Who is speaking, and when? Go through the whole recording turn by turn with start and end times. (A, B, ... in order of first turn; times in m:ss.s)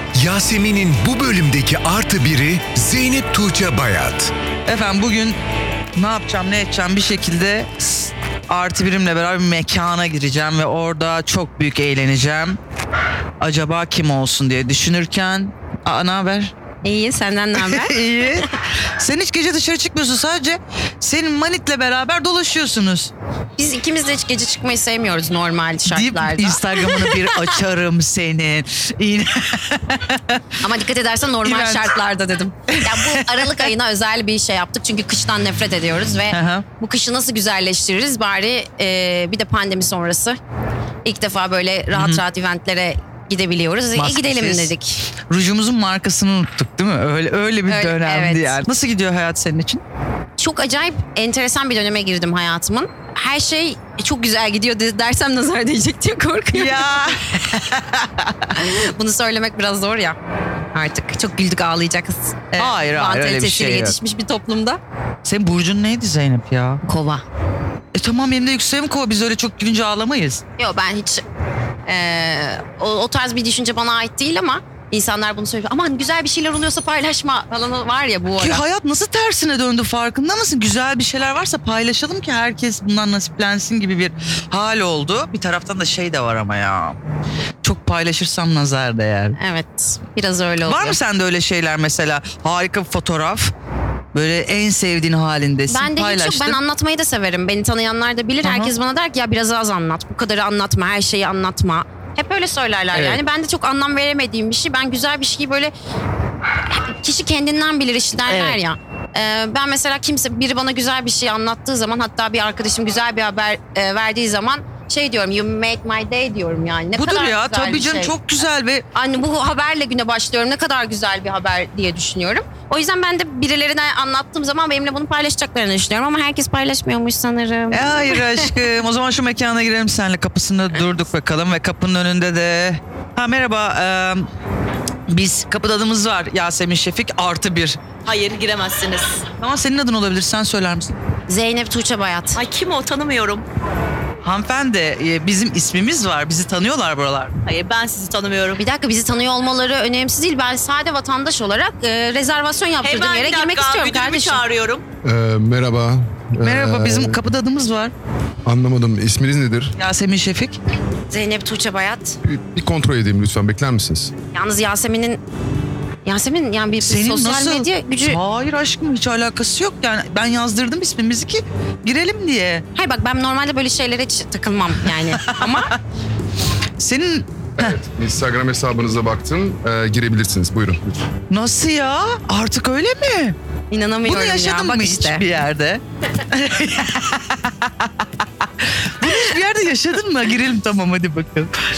0:00.1-0:04.3 A
0:04.6-0:05.4 B
0:06.0-0:12.6 B
0:13.4-0:16.5 B
0:16.8-0:18.4 C
0:17.5-0:23.1 B
0:23.6-0:27.5 C
0:25.9-0:30.4 B
0:30.6-0:40.4 C
0:31.4-0:31.9 B
0:32.7-0:33.7 B
0:36.3-0:36.6 B
0:41.0-0:45.0 C
0:41.9-0:42.2 B
0:43.9-0:44.7 B
0:45.3-0:49.8 B
0:47.7-0:48.6 C
0:50.4-0:57.1 C
0:56.5-0:58.4 B
0:58.5-1:00.2 C
1:00.7-1:04.8 C
1:02.6-1:04.0 B
1:05.2-1:06.8 B
1:06.8-1:07.2 C
1:07.9-1:10.4 B
1:10.6-1:11.2 C
1:11.9-1:18.6 C
1:18.4-1:27.0 B
1:27.6-1:29.4 B
1:29.4-1:31.0 C
1:30.6-1:33.5 B
1:34.1-1:36.6 B
1:35.7-1:45.7 C
1:38.4-1:38.7 B
1:42.9-1:43.2 B
1:46.6-1:58.1 C
1:48.3-1:48.6 B
1:56.9-1:58.8 B
1:58.9-2:08.6 C
2:07.7-2:14.3 B
2:15.1-2:17.8 B
2:18.0-2:19.3 D
2:19.4-2:20.9 B
2:21.3-2:22.4 C
2:22.4-2:23.4 D
2:24.2-2:27.3 B
2:27.4-2:28.6 D
2:28.6-2:34.4 C
2:32.8-2:34.8 D
2:35.0-2:37.2 E
2:36.4-2:37.9 B
2:38.4-2:39.7 E
2:39.8-2:40.6 B
2:41.1-2:42.2 C
2:42.2-2:44.1 E
2:44.3-2:45.2 C
2:46.0-2:48.2 C
2:46.8-2:52.6 B
2:52.7-2:55.7 C
2:55.0-2:55.7 B
2:56.8-2:57.3 B
2:57.6-3:01.0 E
3:01.3-3:03.4 B
3:03.7-3:05.2 C
3:04.0-3:11.5 B